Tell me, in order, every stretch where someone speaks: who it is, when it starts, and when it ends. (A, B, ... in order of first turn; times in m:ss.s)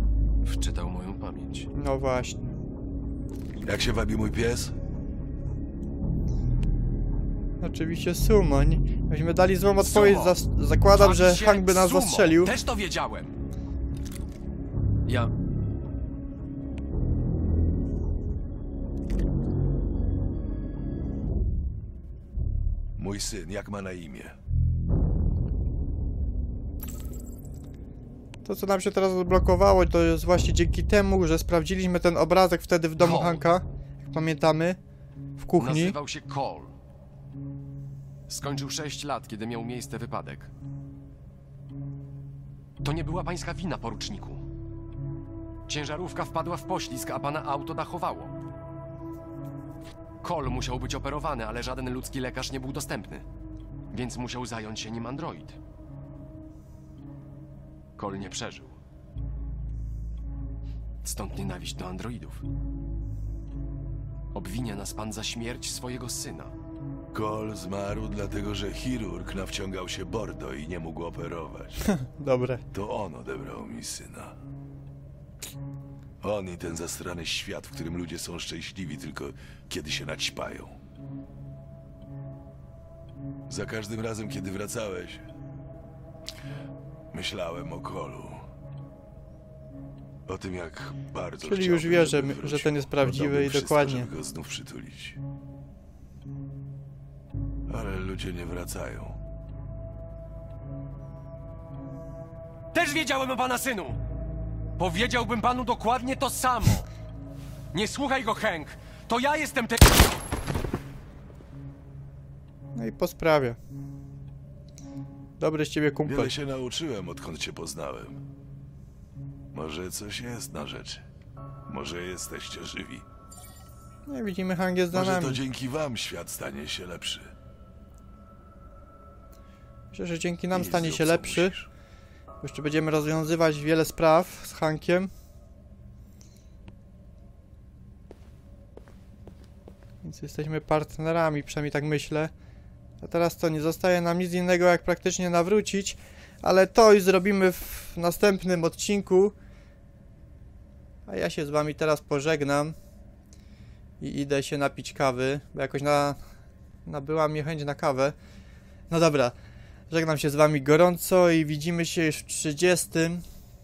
0:00.4-0:01.7 A
0:01.8-0:02.4 B
0:03.6-0:04.7 C
0:07.6-0:12.5 B
0:09.8-0:10.4 A
0:10.9-0:13.3 A
0:15.1-0:15.3 A
0:23.0-0:24.4 C
0:28.4-0:34.8 B
0:33.0-0:33.4 A
0:35.4-0:36.0 B
0:35.6-0:36.7 A
0:38.3-0:40.5 A
0:42.8-0:44.4 A
0:45.7-0:48.3 A
0:50.2-0:53.2 A
0:53.9-0:55.6 A
0:58.0-0:58.8 A
1:01.0-1:02.4 A
1:04.3-1:06.5 A
1:07.1-1:11.8 C
1:11.9-1:12.6 B
1:12.7-1:14.4 C
1:16.2-1:20.8 C
1:23.5-1:25.2 C
1:27.1-1:28.4 C
1:30.3-1:35.2 C
1:31.4-1:34.1 B
1:37.7-1:39.2 C
1:42.7-1:44.0 A
1:44.8-1:46.9 A
1:47.7-1:50.2 A
1:52.8-1:53.6 B
1:55.4-1:56.3 B
1:56.1-1:58.2 C
1:59.5-2:01.0 C
2:01.7-2:03.0 C
2:04.1-2:05.4 B
2:04.9-2:07.3 C
2:09.9-2:11.6 B
2:10.5-2:11.7 C
2:12.4-2:15.1 B
2:20.0-2:22.3 B
2:23.0-2:29.3 B
2:31.1-2:32.8 B
2:34.0-2:36.2 B
2:36.9-2:38.2 B
2:38.9-2:39.4 B
2:39.9-2:43.2 B